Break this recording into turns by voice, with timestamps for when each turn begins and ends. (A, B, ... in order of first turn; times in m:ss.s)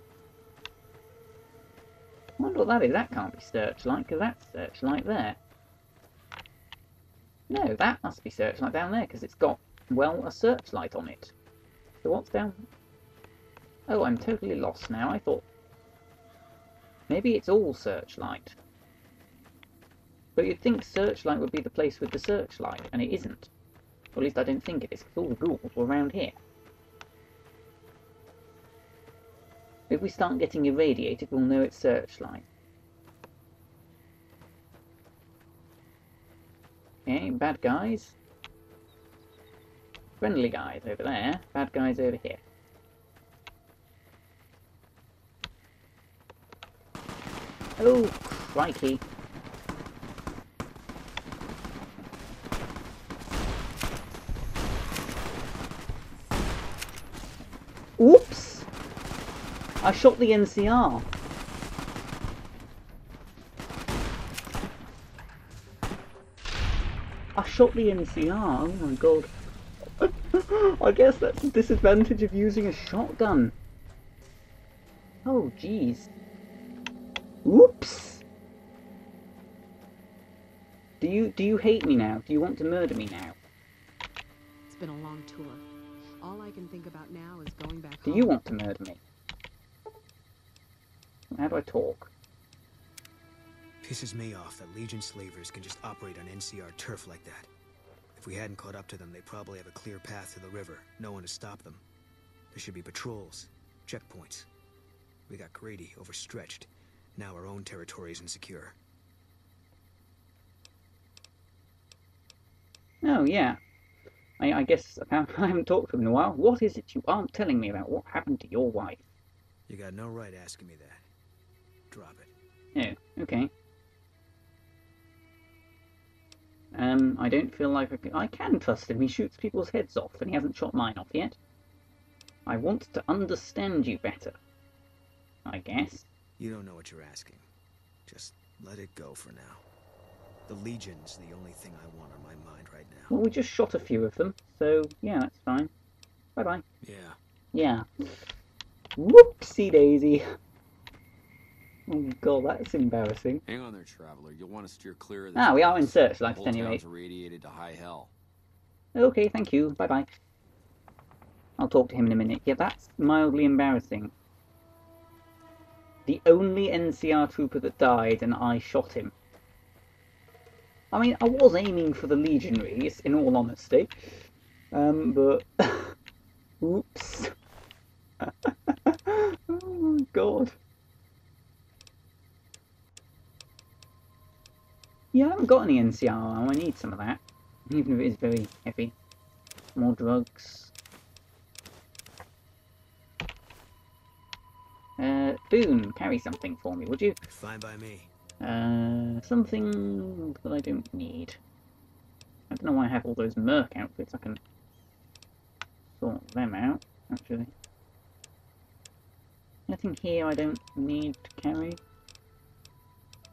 0:02.4-0:05.4 A
0:07.5-0:11.3 A
0:12.0-0:12.7 A
0:13.9-0:15.4 A
0:17.1-0:18.6 A
0:20.4-0:23.5 A
0:24.2-0:26.4 A
0:29.9-0:32.4 A
0:37.1-0:38.2 A
0:40.2-0:42.4 A
0:47.8-0:49.0 A
0:58.0-0:58.7 A
0:59.8-1:01.1 A
1:07.4-1:09.3 A
1:10.0-1:13.6 A
1:15.2-1:16.1 A
1:17.4-1:18.2 A
1:21.0-1:23.4 A
1:24.7-1:25.6 B
1:26.2-1:28.3 B
1:28.0-1:29.0 A
1:31.3-1:32.1 A
1:33.8-1:37.5 C
1:38.2-1:41.8 C
1:42.5-1:44.5 C
1:45.3-1:48.8 C
1:53.0-1:53.6 A
1:54.4-1:59.1 A
1:59.7-2:01.0 C
2:01.9-2:02.3 C
2:02.8-2:03.5 A
2:06.7-2:11.4 A
2:12.5-2:14.4 A
2:15.4-2:16.1 A
2:16.4-2:17.4 C
2:18.1-2:19.6 C
2:20.5-2:23.1 C
2:23.1-2:25.7 A
2:26.4-2:26.6 A
2:26.8-2:27.2 C
2:27.5-2:28.3 A
2:29.0-2:30.2 A
2:31.9-2:33.4 A
2:33.4-2:38.1 D
2:35.4-2:36.8 A
2:39.0-2:40.1 A
2:41.6-2:44.1 A
2:46.1-2:49.1 A
2:50.9-2:56.0 A
2:56.6-2:57.3 A
2:58.2-3:00.6 A
3:05.1-3:09.0 A
3:09.8-3:10.7 A
3:15.0-3:17.2 A
3:17.3-3:18.1 C
3:18.4-3:21.4 A
3:22.5-3:24.4 A
3:26.0-3:27.5 A
3:29.7-3:31.8 A